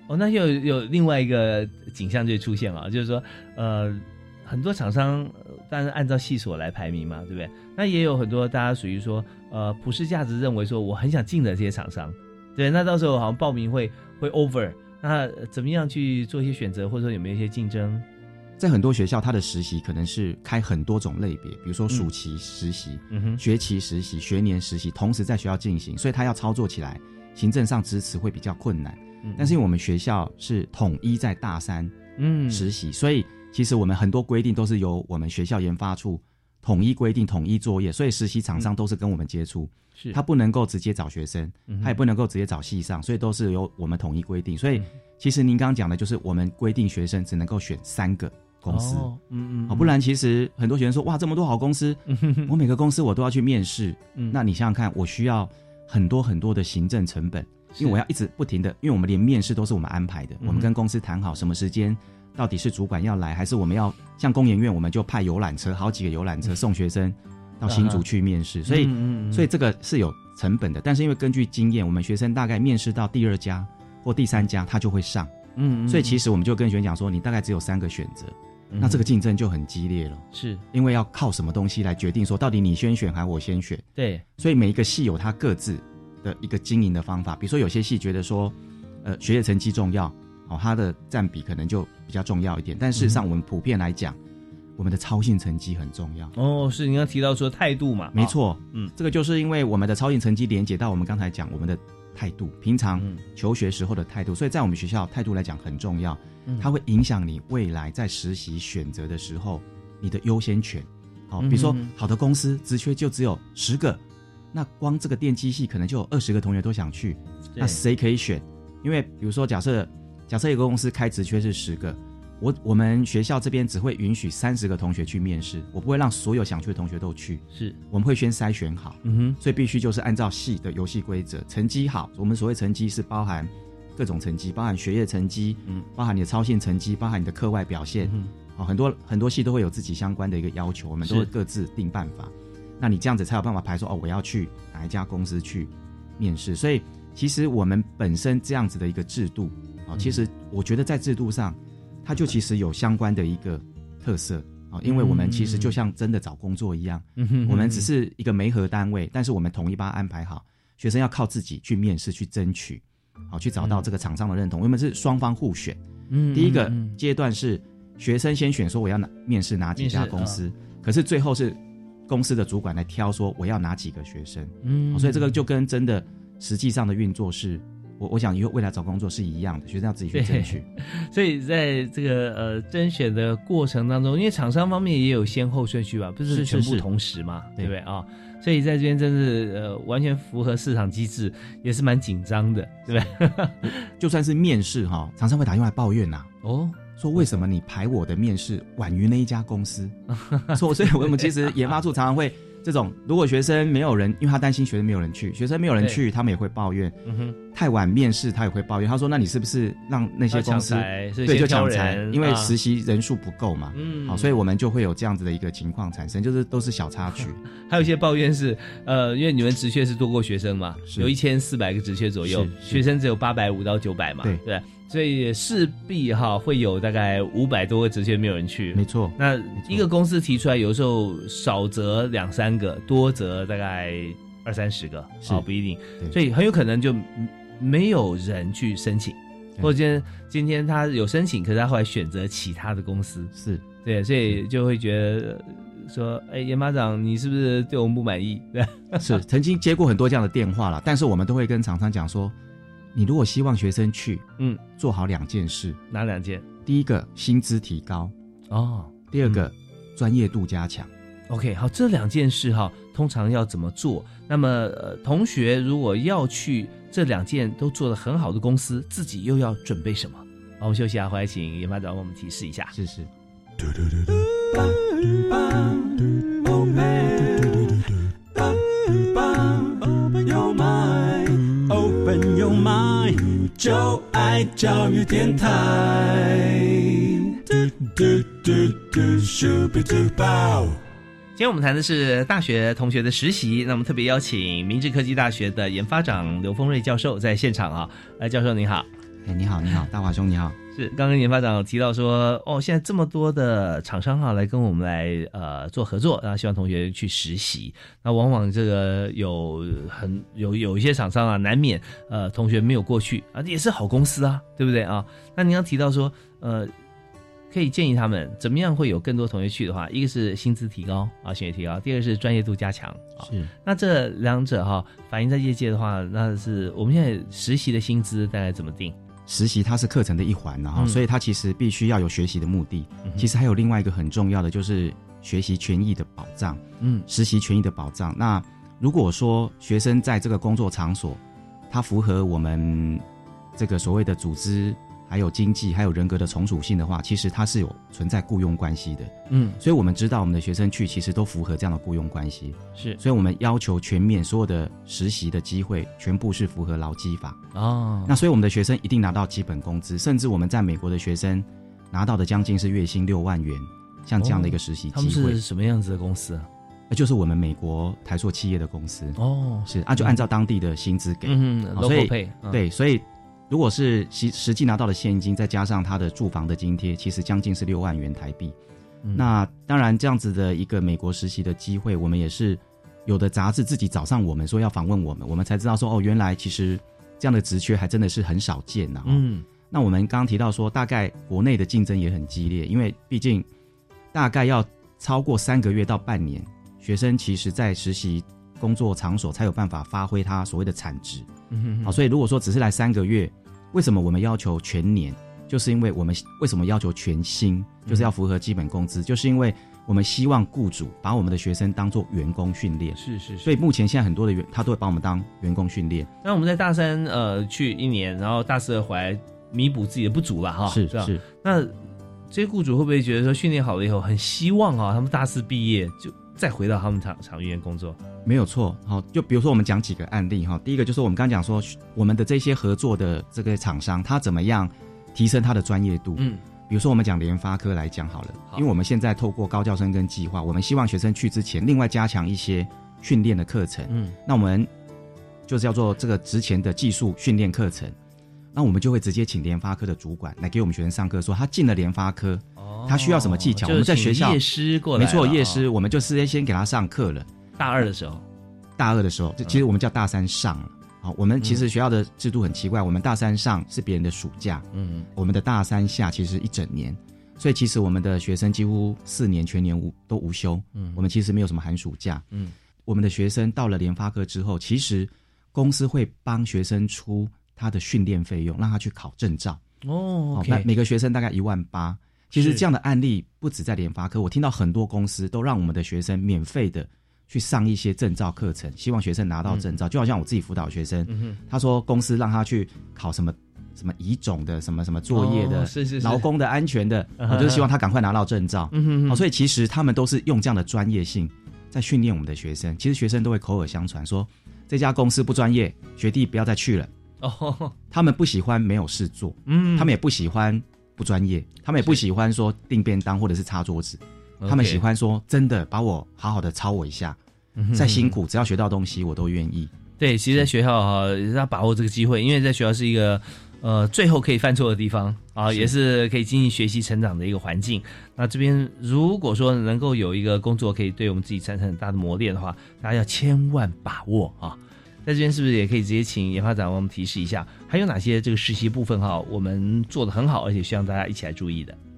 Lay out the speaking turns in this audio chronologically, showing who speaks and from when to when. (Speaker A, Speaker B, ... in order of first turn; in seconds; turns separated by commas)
Speaker A: 0.1-18.1, Speaker B: 18.6-31.9, Speaker A: 23.1-23.4, Speaker A: 29.2-29.6, Speaker A: 32.2-32.7, Speaker B: 32.5-49.1, Speaker A: 41.7-42.0, Speaker A: 48.7-49.9, Speaker B: 49.7-75.3, Speaker A: 52.1-52.5, Speaker A: 60.4-60.7, Speaker A: 67.7-68.0, Speaker A: 68.7-69.5, Speaker A: 75.5-76.2, Speaker B: 75.9-83.8, Speaker A: 78.7-79.0, Speaker A: 80.3-80.6, Speaker A: 84.0-84.2, Speaker B: 84.4-94.2, Speaker A: 93.0-93.2, Speaker B: 94.8-96.3, Speaker A: 96.4-98.9, Speaker B: 98.1-114.0, Speaker A: 111.4-111.9, Speaker B: 114.5-165.8, Speaker A: 127.5-127.8, Speaker A: 129.0-129.4, Speaker A: 138.0-138.3, Speaker A: 141.0-141.3, Speaker A: 154.8-155.8, Speaker A: 157.2-157.9, Speaker A: 163.6-163.9, Speaker A: 166.1-167.0, Speaker B: 166.3-180.7, Speaker A: 169.8-170.4, Speaker A: 174.6-175.4, Speaker A: 180.1-193.8, Speaker B: 186.3-186.9, Speaker B: 192.9-196.3, Speaker A: 196.4-197.4, Speaker B: 197.0-200.0, Speaker A: 200.1-201.4, Speaker B: 200.5-206.9, Speaker A: 207.1-207.4, Speaker B: 207.5-217.4, Speaker A: 210.3-212.6, Speaker A: 213.7-214.4, Speaker A: 217.6-243.3, Speaker B: 220.9-221.1, Speaker B: 222.2-222.8, Speaker B: 228.7-229.9, Speaker B: 243.3-243.6, Speaker A: 243.8-249.2, Speaker B: 249.0-252.3, Speaker B: 252.9-255.8, Speaker A: 255.9-256.4, Speaker B: 256.6-258.1, Speaker A: 258.5-259.4, Speaker B: 259.1-260.9, Speaker A: 261.3-272.7, Speaker B: 272.7-273.1, Speaker C: 273.6-290.8, Speaker A: 291.4-298.9, Speaker B: 299.2-300.6, Speaker A: 300.7-316.7, Speaker A: 317.5-328.9, Speaker B: 323.2-323.5, Speaker B: 329.3-343.0, Speaker A: 330.8-331.0, Speaker A: 336.8-337.1, Speaker B: 343.6-357.4, Speaker A: 349.3-349.6, Speaker A: 357.5-358.1, Speaker B: 358.1-365.4, Speaker A: 364.2-366.5, Speaker B: 366.9-378.6, Speaker A: 369.2-370.2, Speaker A: 371.2-372.6, Speaker B: 379.1-393.5, Speaker A: 389.1-389.4, Speaker B: 394.1-401.3, Speaker A: 401.5-402.0, Speaker B: 401.8-416.1, Speaker A: 412.9-413.5, Speaker A: 416.2-428.0, Speaker B: 420.7-421.2, Speaker B: 428.2-444.7, Speaker A: 436.2-436.4, Speaker A: 443.9-444.1, Speaker B: 445.5-447.9, Speaker B: 448.5-454.4, Speaker A: 452.6-455.6, Speaker B: 454.9-457.3, Speaker A: 457.6-458.2, Speaker B: 458.8-472.2, Speaker A: 464.7-465.1, Speaker A: 470.7-471.0, Speaker B: 472.9-479.6, Speaker A: 479.8-480.7, Speaker B: 480.3-506.9, Speaker A: 482.3-482.6, Speaker A: 491.1-491.4, Speaker A: 495.1-496.3, Speaker A: 497.2-497.7, Speaker A: 498.7-499.2, Speaker A: 507.2-507.7, Speaker B: 507.9-517.2, Speaker A: 509.5-509.9, Speaker A: 514.4-514.8, Speaker A: 517.6-518.2, Speaker B: 517.7-519.7, Speaker A: 520.0-541.8, Speaker B: 525.5-525.7